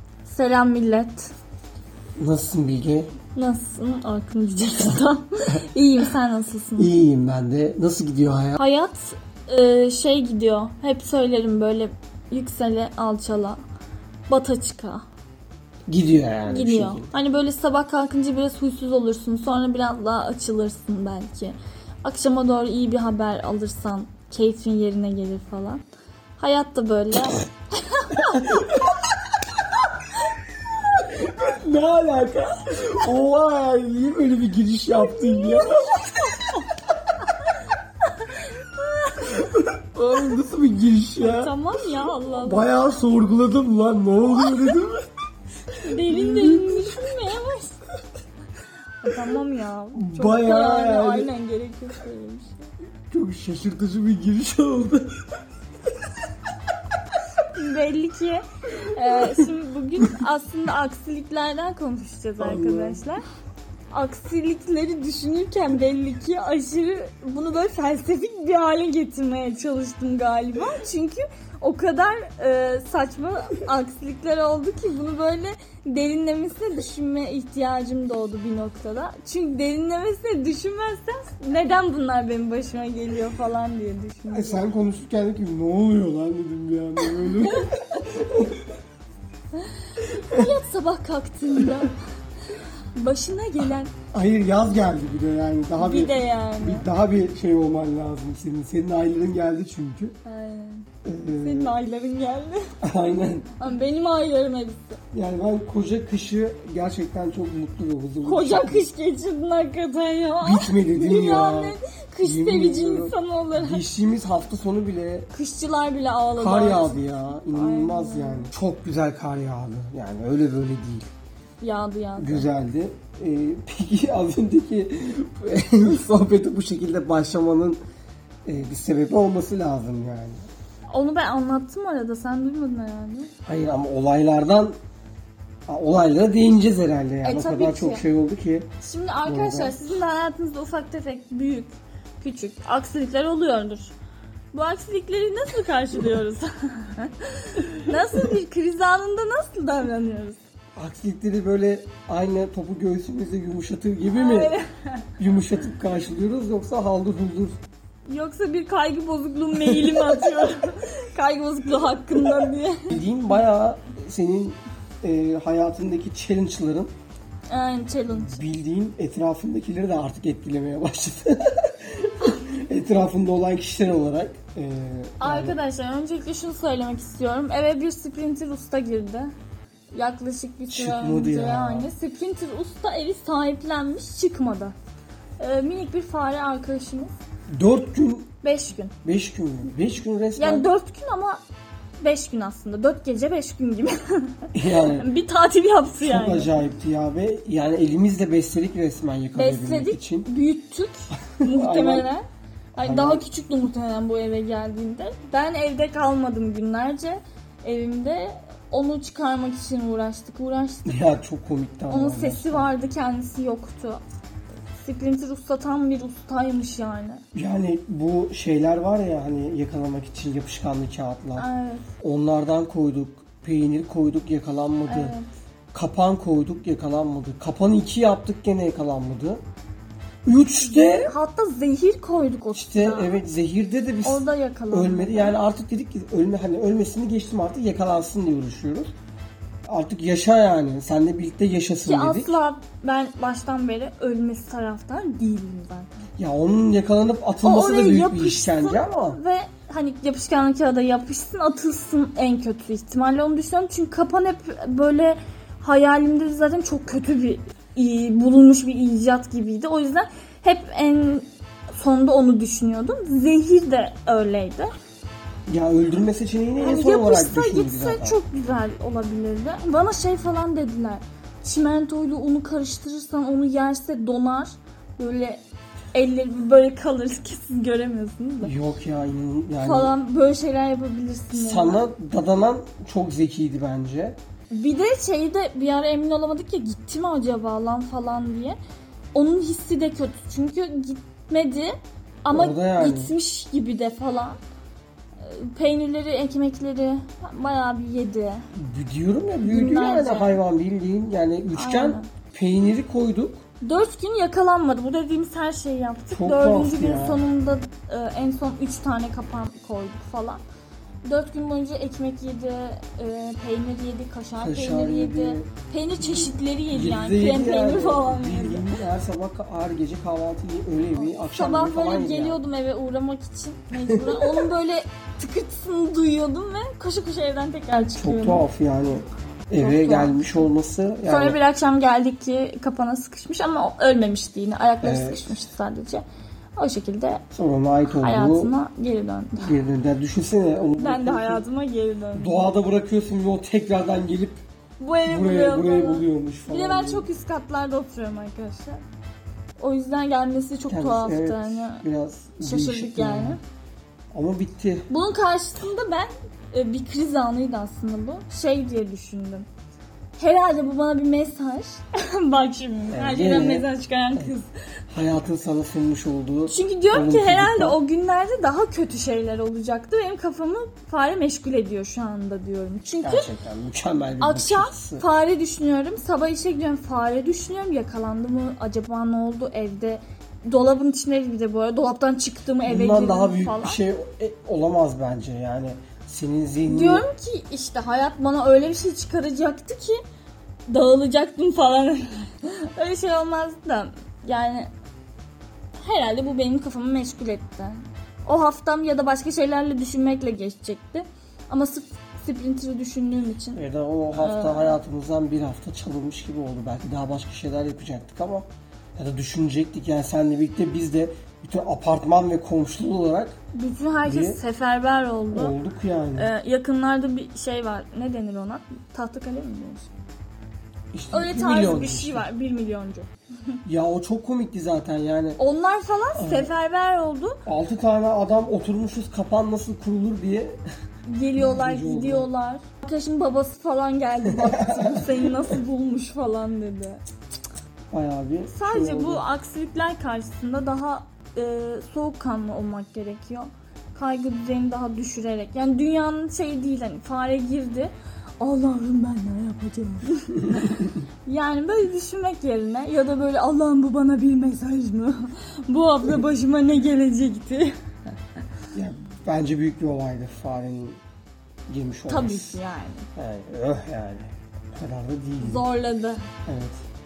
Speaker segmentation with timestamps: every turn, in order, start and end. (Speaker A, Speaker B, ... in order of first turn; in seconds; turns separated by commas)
Speaker A: 0.2-1.3, Speaker B: 2.2-3.1, Speaker A: 3.3-6.9, Speaker B: 6.8-8.6, Speaker A: 8.6-13.6, Speaker A: 14.3-15.0, Speaker B: 15.9-17.1, Speaker A: 16.5-25.8, Speaker A: 26.4-28.4, Speaker B: 28.1-29.1, Speaker B: 30.8-36.4, Speaker A: 38.3-39.2, Speaker B: 39.2-41.5, Speaker A: 41.2-42.7, Speaker B: 42.3-45.0, Speaker A: 45.8-47.8, Speaker B: 45.9-47.0, Speaker A: 49.0-52.7, Speaker B: 49.9-51.3, Speaker B: 53.1-55.2, Speaker A: 57.5-63.2, Speaker B: 62.4-63.0, Speaker A: 63.9-84.6, Speaker B: 84.3-88.7, Speaker B: 90.0-90.5, Speaker A: 90.3-91.9, Speaker A: 92.6-93.9, Speaker B: 94.1-100.1, Speaker A: 95.8-96.9, Speaker A: 100.2-102.6, Speaker B: 101.0-101.7, Speaker B: 102.8-103.5, Speaker A: 103.5-105.0, Speaker B: 105.1-108.8, Speaker A: 108.2-113.8, Speaker B: 110.4-115.3, Speaker A: 115.3-118.5, Speaker B: 116.4-121.1, Speaker A: 121.6-122.5, Speaker B: 122.2-127.8, Speaker B: 128.4-130.4, Speaker A: 130.9-133.3, Speaker B: 133.4-134.8, Speaker B: 135.7-138.7, Speaker A: 137.2-138.0, Speaker A: 138.8-143.9, Speaker B: 139.2-139.8, Speaker A: 144.5-150.4, Speaker B: 150.8-154.6, Speaker A: 154.1-155.1, Speaker B: 155.2-157.6, Speaker A: 158.1-163.0, Speaker B: 159.6-160.3, Speaker B: 162.9-166.9, Speaker A: 167.5-168.4, Speaker B: 168.1-175.6, Speaker A: 175.2-179.3, Speaker A: 179.9-184.7, Speaker B: 180.7-181.9, Speaker A: 185.4-187.1, Speaker B: 187.5-188.3, Speaker A: 188.4-188.9, Speaker B: 189.0-190.7, Speaker A: 190.4-191.4, Speaker A: 192.0-196.5, Speaker B: 194.5-195.1, Speaker B: 196.0-200.3, Speaker A: 199.3-210.9, Speaker B: 201.4-202.1, Speaker B: 202.8-203.2, Speaker B: 210.8-212.7, Speaker A: 211.9-214.0, Speaker A: 214.8-217.2, Speaker B: 217.3-221.5, Speaker A: 221.4-221.9, Speaker B: 222.0-225.1, Speaker A: 224.9-225.2, Speaker B: 225.7-229.4, Speaker B: 230.2-231.2, Speaker A: 230.6-233.2, Speaker B: 232.5-238.9, Speaker A: 234.0-235.4, Speaker B: 239.7-242.3, Speaker A: 241.8-245.9, Speaker B: 246.2-249.2, Speaker A: 247.4-264.7, Speaker B: 265.5-268.2, Speaker A: 266.6-275.4, Speaker A: 275.9-278.5, Speaker B: 278.4-279.9, Speaker A: 279.6-281.8, Speaker B: 281.3-284.2, Speaker A: 284.5-288.6, Speaker A: 289.1-294.4, Speaker B: 292.3-293.1, Speaker A: 295.2-298.4, Speaker B: 298.5-303.4, Speaker A: 299.4-300.4, Speaker A: 301.5-302.1, Speaker A: 303.6-310.4, Speaker B: 306.1-307.2, Speaker A: 311.1-318.7, Speaker B: 314.4-315.5, Speaker B: 316.0-322.4, Speaker A: 321.0-328.4, Speaker B: 323.9-324.4, Speaker B: 328.0-331.4, Speaker A: 329.6-330.4, Speaker A: 331.1-336.0, Speaker B: 334.8-335.4, Speaker A: 336.6-337.2, Speaker B: 337.3-338.5, Speaker A: 337.9-339.5, Speaker B: 339.4-341.4, Speaker A: 340.8-342.5, Speaker B: 342.1-344.4, Speaker A: 344.8-348.8, Speaker B: 345.0-347.1, Speaker A: 349.6-351.8, Speaker B: 350.7-353.4, Speaker A: 352.4-353.4, Speaker B: 354.1-354.9, Speaker A: 354.9-359.4, Speaker A: 360.2-364.5, Speaker B: 362.9-364.3, Speaker B: 364.9-367.8, Speaker A: 366.5-373.3, Speaker B: 373.0-375.0, Speaker A: 374.2-383.8, Speaker B: 382.6-387.1, Speaker A: 386.6-390.0, Speaker A: 390.7-394.7, Speaker A: 395.8-403.6, Speaker B: 403.5-413.4, Speaker A: 404.1-404.8, Speaker A: 413.5-415.5, Speaker B: 414.0-414.4, Speaker B: 415.3-416.3, Speaker A: 416.1-419.9, Speaker B: 420.9-422.3, Speaker A: 421.1-423.5, Speaker B: 423.6-425.4, Speaker A: 425.4-427.4, Speaker B: 426.1-426.5, Speaker B: 427.4-430.6, Speaker A: 431.1-437.0, Speaker B: 431.4-432.3, Speaker B: 434.3-435.6, Speaker B: 437.9-439.2, Speaker A: 438.5-457.7, Speaker B: 458.7-461.0, Speaker B: 461.7-462.6, Speaker A: 462.1-463.1, Speaker B: 463.1-465.7, Speaker A: 465.4-466.2, Speaker B: 466.5-466.8